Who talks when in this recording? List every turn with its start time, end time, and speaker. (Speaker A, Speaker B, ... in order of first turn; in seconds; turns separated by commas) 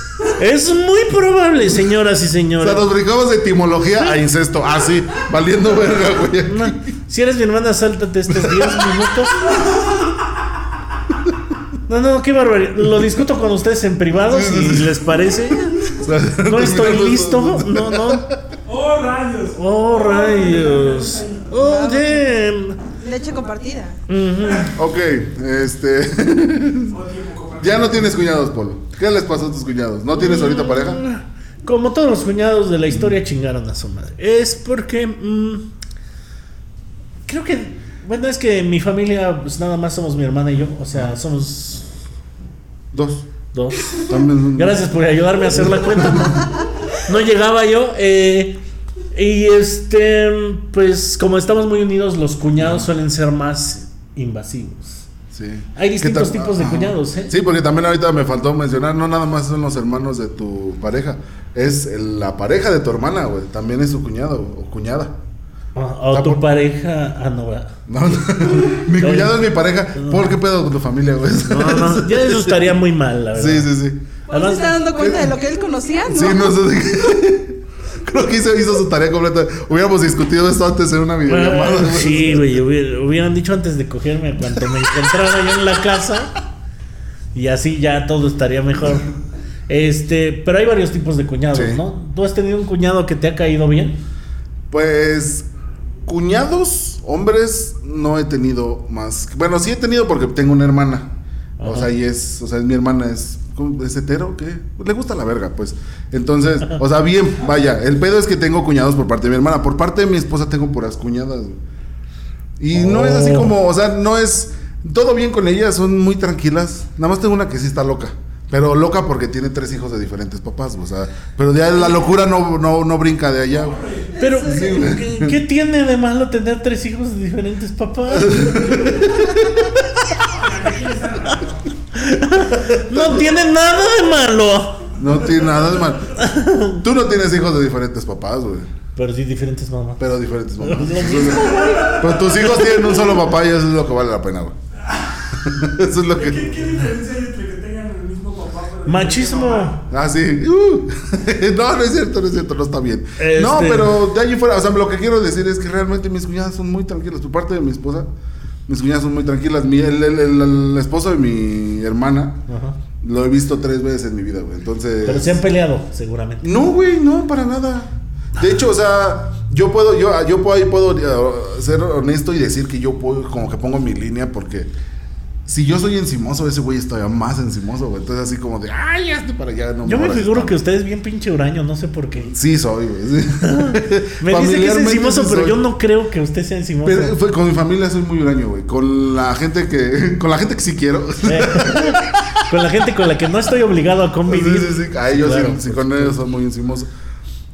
Speaker A: 0.2-2.8, Speaker B: 2.6-6.8, Speaker A: 6.5-9.4, Speaker B: 8.3-9.0, Speaker A: 11.9-15.7, Speaker B: 14.2-15.1, Speaker B: 15.9-18.4, Speaker A: 16.4-18.3, Speaker C: 18.6-21.4, Speaker A: 19.5-22.8, Speaker D: 21.5-22.3, Speaker D: 22.9-24.0, Speaker A: 24.1-24.7, Speaker B: 24.7-27.0, Speaker C: 26.9-28.1, Speaker B: 27.6-31.0, Speaker A: 30.1-35.7, Speaker A: 37.3-41.9, Speaker B: 42.9-43.3, Speaker A: 43.5-48.6, Speaker B: 44.0-44.8, Speaker B: 45.5-46.4, Speaker A: 49.1-55.1, Speaker B: 52.6-52.9, Speaker B: 55.3-65.2, Speaker A: 55.8-57.3, Speaker A: 65.7-67.8, Speaker B: 66.1-66.4, Speaker B: 67.9-72.7, Speaker A: 69.0-69.4, Speaker A: 70.0-70.2, Speaker A: 71.5-73.7, Speaker B: 73.3-74.1, Speaker A: 74.3-74.8, Speaker D: 74.3-76.6, Speaker B: 74.9-75.3, Speaker B: 76.1-82.4, Speaker A: 81.2-86.3, Speaker A: 87.3-89.1, Speaker A: 89.7-94.0, Speaker B: 91.5-91.8, Speaker B: 94.7-95.5, Speaker B: 96.0-101.1, Speaker A: 101.6-101.9, Speaker B: 101.6-111.6, Speaker B: 112.6-123.8, Speaker A: 112.7-113.5, Speaker C: 123.5-124.2, Speaker A: 124.2-129.0, Speaker B: 124.4-125.3, Speaker B: 128.1-129.8, Speaker C: 130.2-131.8, Speaker A: 131.9-134.9, Speaker B: 132.7-133.2, Speaker B: 135.0-136.1, Speaker A: 136.1-136.8, Speaker B: 136.8-138.7, Speaker A: 138.9-140.0, Speaker B: 140.0-144.6, Speaker A: 140.6-142.8, Speaker C: 144.9-145.2, Speaker B: 145.3-146.8, Speaker C: 146.1-149.8, Speaker A: 148.8-149.8, Speaker B: 149.9-158.1, Speaker A: 153.2-154.0, Speaker B: 158.7-162.4, Speaker A: 162.5-162.8, Speaker B: 163.0-165.4, Speaker A: 165.0-166.5, Speaker B: 166.4-174.7, Speaker B: 175.5-180.6, Speaker A: 179.8-182.3, Speaker B: 182.2-185.6, Speaker A: 183.4-187.2, Speaker B: 186.8-192.4, Speaker A: 191.2-196.2, Speaker B: 194.2-196.9